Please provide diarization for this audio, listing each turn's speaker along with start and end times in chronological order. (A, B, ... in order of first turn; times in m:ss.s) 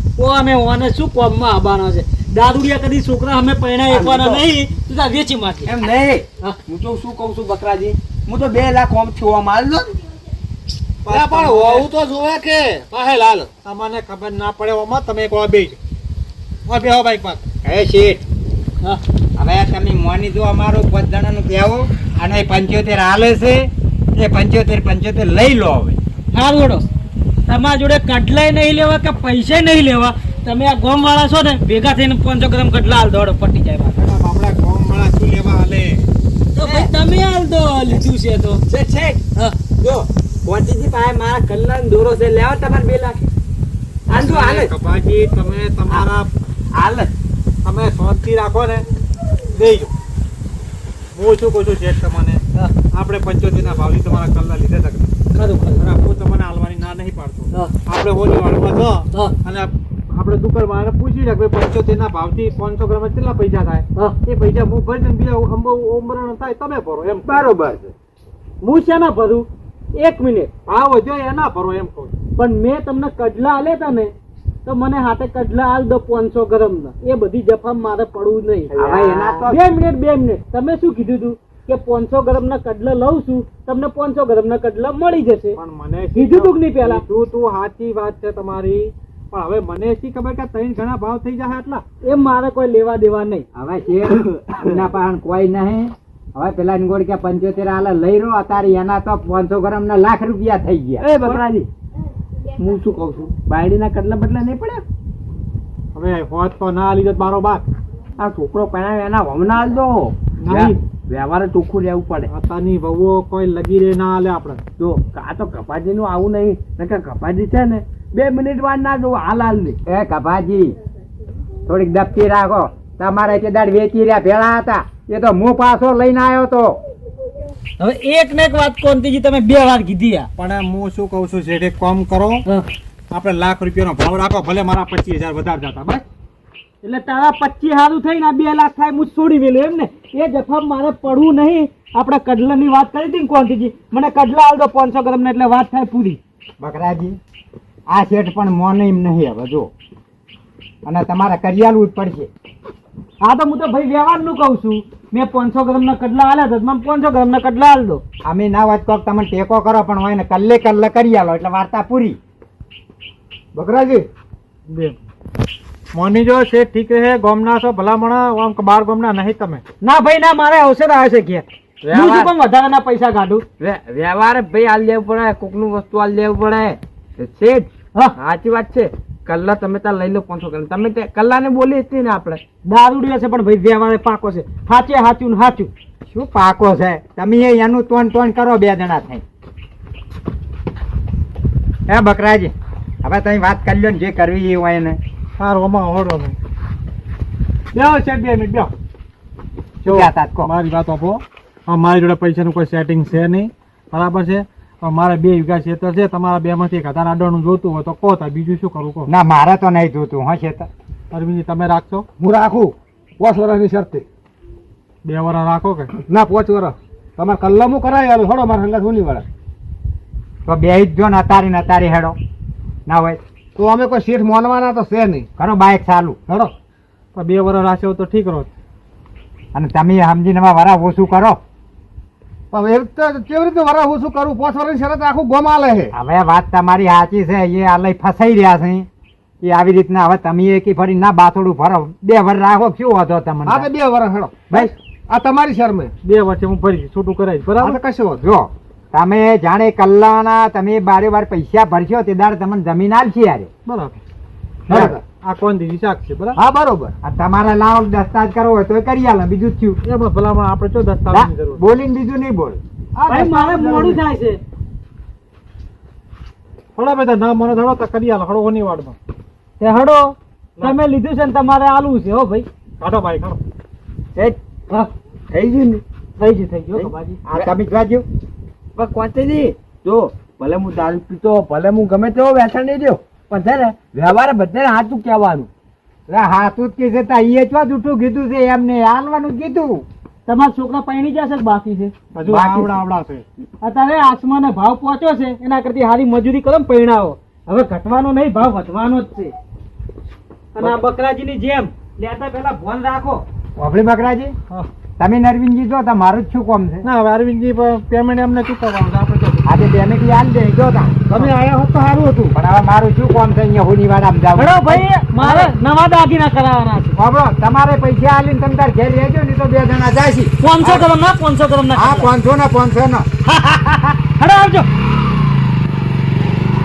0:00.2-0:05.7 A
0:03.9-0:04.5 B
0:05.7-0:09.9 B
0:11.1-0:11.9 C
0:11.1-0:13.5 D
0:13.6-0:15.8 C
0:16.7-0:17.4 C
0:17.6-0:18.2 E
0:19.4-0:26.0 E
0:26.3-0:26.9 A
0:27.5-0:34.0 A
0:34.0-0:36.1 C
0:36.6-0:38.6 A
0:36.6-0:36.9 B
0:38.7-0:39.2 B
0:39.8-0:43.2 B
0:44.1-0:44.7 B
0:44.1-0:46.3 C
0:46.7-0:47.1 B
0:47.6-0:48.9 C
0:49.5-0:49.9 C
0:51.2-0:55.1 C
0:55.3-0:55.8 A
0:55.8-1:07.3 C
1:07.3-1:07.9 E
1:08.6-1:10.5 A
1:10.7-1:12.2 C
1:12.4-1:14.1 A
1:14.6-1:18.7 A
1:18.7-1:19.5 B
1:18.7-1:19.6 E
1:19.5-1:25.6 A
1:25.5-1:31.8 C
1:26.1-1:27.0 A
1:32.0-1:33.5 A
1:33.6-1:41.0 E
1:34.1-1:34.6 B
1:41.0-1:41.7 B
1:42.6-1:44.8 B
1:46.0-1:47.6 C
1:48.2-1:52.3 B
1:50.4-1:50.8 C
1:52.3-1:54.6 C
1:54.8-1:59.8 B
1:59.9-2:00.8 E
2:01.7-2:06.8 E
2:07.8-2:10.3 A
2:10.4-2:12.5 C
2:13.1-2:16.0 C
2:16.8-2:26.2 A
2:26.6-2:27.2 E
2:27.9-2:29.7 E
2:30.8-2:32.3 E
2:33.2-2:38.0 A
2:38.2-2:42.2 E
2:43.6-2:44.1 D
2:44.7-2:45.0 C
2:45.9-2:49.6 C
2:49.8-2:53.4 A
2:51.8-2:52.3 B
2:53.6-3:02.4 B
3:02.7-3:05.7 A
3:06.1-3:09.2 E
3:11.9-3:15.0 E
3:15.4-3:16.4 C
3:17.7-3:18.7 C
3:19.8-3:29.1 C
3:19.8-3:20.5 E
3:29.1-3:30.7 E
3:31.1-3:32.1 C
3:32.2-3:34.1 D
3:35.0-3:35.9 C
3:36.0-3:39.2 D
3:40.5-3:42.2 E
3:42.9-3:43.2 E
3:43.6-3:45.3 D
3:45.4-3:46.2 E
3:46.3-3:46.5 D
3:47.2-3:48.5 C
3:49.5-3:51.4 E
3:52.5-3:55.9 D
3:55.9-3:58.9 E
3:59.4-4:03.7 E
4:03.5-4:05.9 D
4:06.0-4:07.8 C
4:07.6-4:08.2 D
4:08.2-4:13.5 E
4:13.7-4:14.0 C
4:14.7-4:15.0 E
4:14.7-4:15.0 D
4:15.1-4:16.4 C
4:16.4-4:16.9 D
4:17.0-4:19.8 E
4:19.8-4:21.6 C
4:21.1-4:22.6 E
4:23.0-4:24.0 C
4:23.1-4:24.4 A
4:26.8-4:29.0 C
4:29.6-4:32.5 A
4:32.8-4:33.4 C
4:35.3-4:35.8 B
4:36.2-4:37.2 A
4:36.7-4:37.5 B
4:37.3-4:38.1 E
4:38.8-4:45.5 B
4:46.1-4:49.8 E
4:50.3-4:51.9 A
4:52.2-4:53.2 C
4:52.3-4:52.7 E
4:53.6-4:59.3 A
5:00.5-5:03.2 A
5:03.6-5:04.3 E
5:05.0-5:06.8 E
5:06.8-5:09.4 C
5:09.4-5:11.3 E
5:11.1-5:12.4 C
5:12.3-5:15.5 E
5:14.4-5:17.0 A
5:17.0-5:20.9 E
5:20.4-5:22.1 A
5:21.7-5:23.1 E
5:23.3-5:24.7 A